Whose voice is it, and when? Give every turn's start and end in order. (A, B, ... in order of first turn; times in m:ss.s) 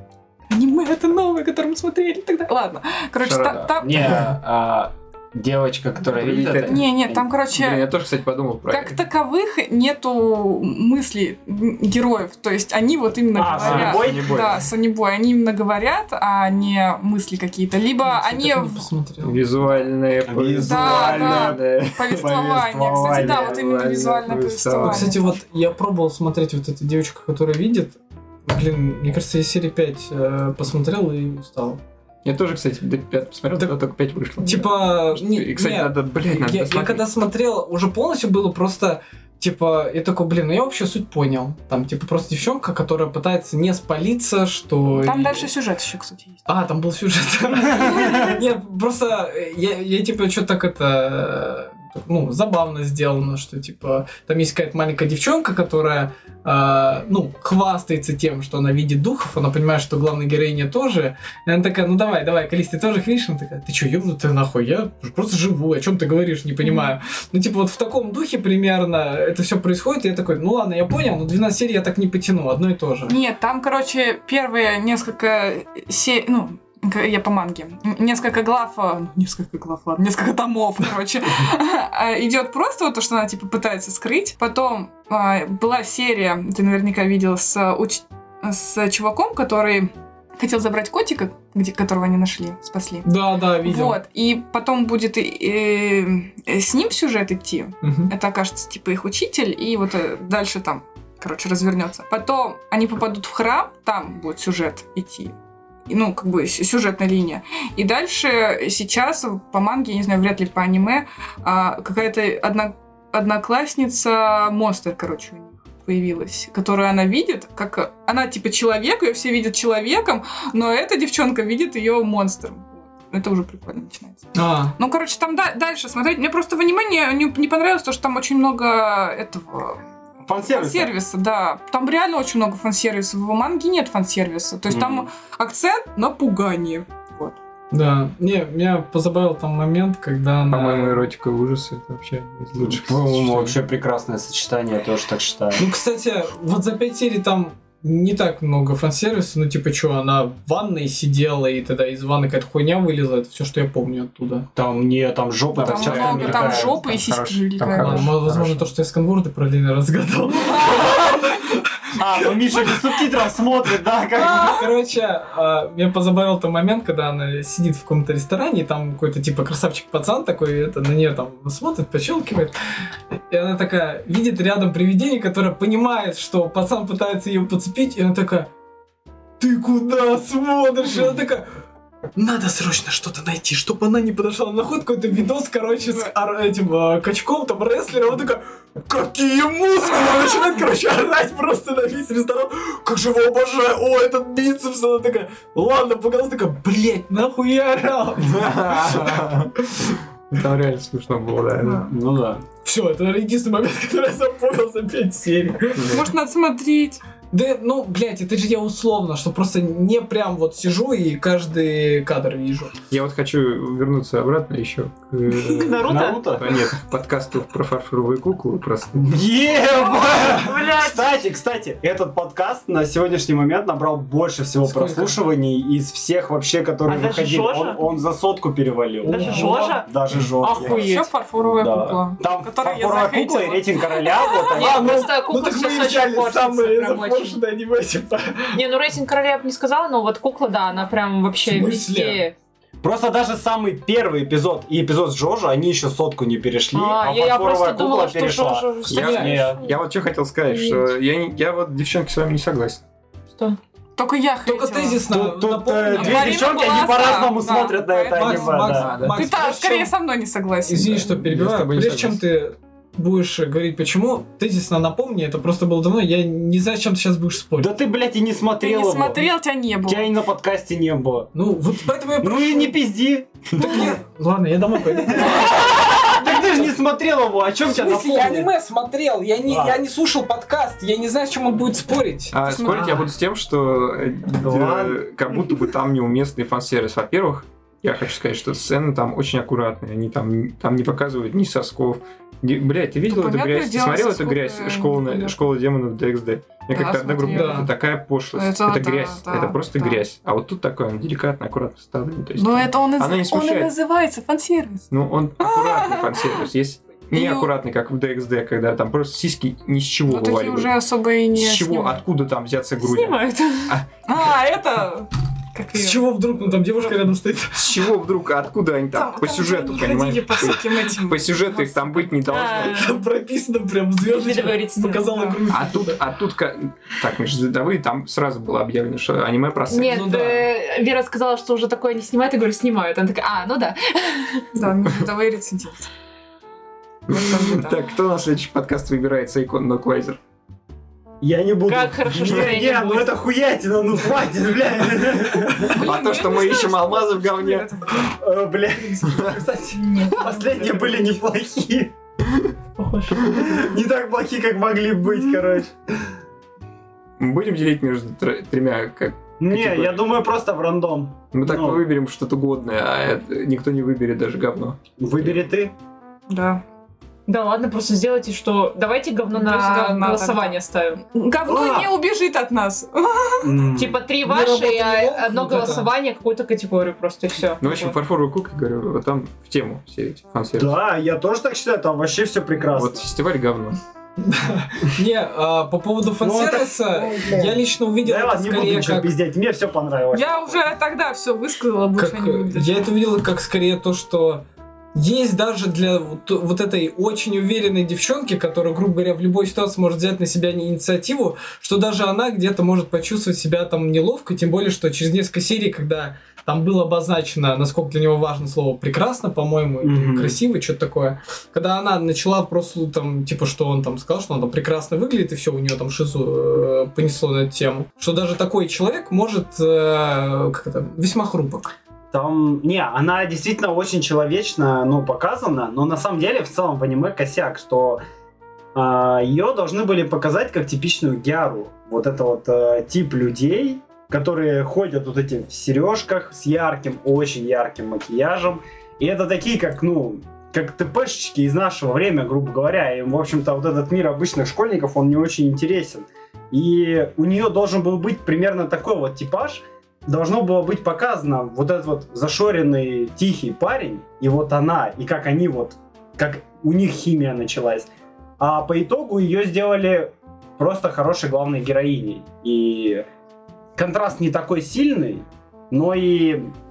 0:00.5-0:04.1 A
0:03.2-0:04.2 B
0:03.8-0:07.2 C
0:06.1-0:06.9 B
0:06.5-0:07.9 A
0:07.5-0:09.0 B
0:08.7-0:18.9 A
0:13.4-0:14.4 C
0:13.5-0:14.6 B
0:18.0-0:19.4 D
0:19.2-0:22.3 B
0:20.3-0:23.6 C
0:20.6-0:25.4 A
0:23.0-0:25.2 B
0:24.8-0:31.8 D
0:32.2-0:37.0 B
0:34.4-0:45.5 D
0:45.0-0:46.4 A
0:46.5-1:13.2 D
0:47.8-0:48.3 C
1:06.6-1:06.9 A
1:13.1-1:45.3 A
1:33.0-1:34.0 D
1:37.8-1:38.1 D
1:45.9-2:09.8 A
2:04.4-2:04.7 D
2:10.2-2:10.9 C
2:10.5-2:17.4 A
2:14.7-2:15.1 C
2:17.7-2:21.0 D
2:20.5-2:23.6 B
2:22.6-2:25.6 C
2:25.6-2:34.5 D
2:34.6-2:36.8 C
2:35.6-2:38.1 A
2:35.6-2:38.7 B
2:35.7-2:36.5 D
2:37.8-2:42.8 D
2:40.6-2:41.2 A
2:42.0-2:44.7 C
2:44.1-2:52.6 D
2:53.3-2:58.5 D
2:59.4-3:01.5 D
3:02.2-3:19.3 D
3:18.2-3:21.9 B
3:21.9-3:22.4 C
3:22.6-3:26.0 D
3:25.8-3:26.1 B
3:25.9-3:27.0 A
3:27.3-3:32.7 D
3:32.9-3:39.2 B
3:35.4-3:36.3 E
3:35.6-3:36.5 C
3:39.0-3:50.9 C
3:39.9-3:41.0 E
3:44.6-3:45.2 D
3:46.9-3:47.8 E
3:49.0-3:49.8 D
3:49.1-3:49.9 E
3:50.4-3:51.1 E
3:50.7-3:54.5 A
3:51.5-3:55.1 C
3:54.6-3:57.4 E
3:54.6-3:58.6 D
3:58.5-4:02.4 E
4:01.4-4:02.2 D
4:02.8-4:09.6 C
4:06.7-4:09.8 E
4:08.9-4:12.8 B
4:08.9-4:09.4 D
4:10.5-4:10.9 E
4:14.0-4:15.1 A
4:14.5-4:16.6 D
4:15.1-4:19.0 C
4:15.9-4:21.0 A
4:18.1-4:19.9 D
4:18.7-4:19.2 B
4:20.6-4:27.7 D
4:20.8-4:22.2 B
4:27.6-4:29.2 C
4:28.6-4:30.1 A
4:29.9-4:31.3 C
4:31.3-4:32.8 D
4:32.2-4:33.8 C
4:33.6-4:36.7 D
4:33.6-4:33.9 A
4:34.8-4:38.5 C
4:37.6-4:43.0 D
4:39.5-4:39.8 C
4:42.3-5:03.7 B
4:42.4-4:43.0 A
4:44.4-4:45.0 C
4:53.1-4:55.4 A
4:56.7-4:57.8 A
4:57.3-4:57.7 D
4:58.3-5:00.0 A
5:02.4-5:06.4 A
5:04.9-5:10.7 B
5:07.1-5:07.5 A
5:10.1-5:12.0 A
5:11.4-5:13.8 B
5:12.8-5:13.8 E
5:14.1-5:16.0 A
5:15.7-5:17.8 D
5:17.6-5:22.8 B
5:18.9-5:22.2 A
5:22.2-5:23.0 E
5:22.6-5:26.0 D
5:24.1-5:25.2 E
5:25.0-5:25.4 A
5:25.5-5:30.3 B
5:29.7-5:34.5 E
5:29.8-5:30.5 D
5:34.5-5:35.9 A
5:37.1-5:40.2 B
5:37.1-5:37.9 A
5:41.2-5:45.8 C
5:41.7-5:43.2 E
5:45.6-5:48.1 A
5:45.6-5:47.7 B
5:48.0-5:49.4 C
5:49.0-5:49.4 B
5:49.1-5:49.9 D
5:49.8-5:51.2 A
5:49.9-5:50.3 E
5:50.1-5:51.9 C
5:52.8-5:53.6 E
5:53.3-5:56.0 C
5:57.2-6:00.1 B
5:59.4-6:01.8 C
6:01.3-6:05.5 B
6:05.0-6:05.7 C
6:06.3-6:06.6 A
6:07.3-6:11.0 E
6:09.3-6:13.7 A
6:11.4-6:11.9 C
6:13.4-6:14.0 C
6:13.8-6:18.0 E
6:14.2-6:15.9 D
6:17.6-6:20.7 B
6:20.6-6:23.1 C
6:22.7-6:23.8 B
6:24.2-6:29.1 D
6:26.2-6:30.6 C
6:30.1-6:32.9 A
6:32.0-6:34.4 D
6:35.0-7:01.7 D
6:49.8-6:50.4 C
7:02.1-7:08.0 C
7:08.8-7:37.9 C
7:38.4-7:43.0 C
7:43.8-7:46.5 C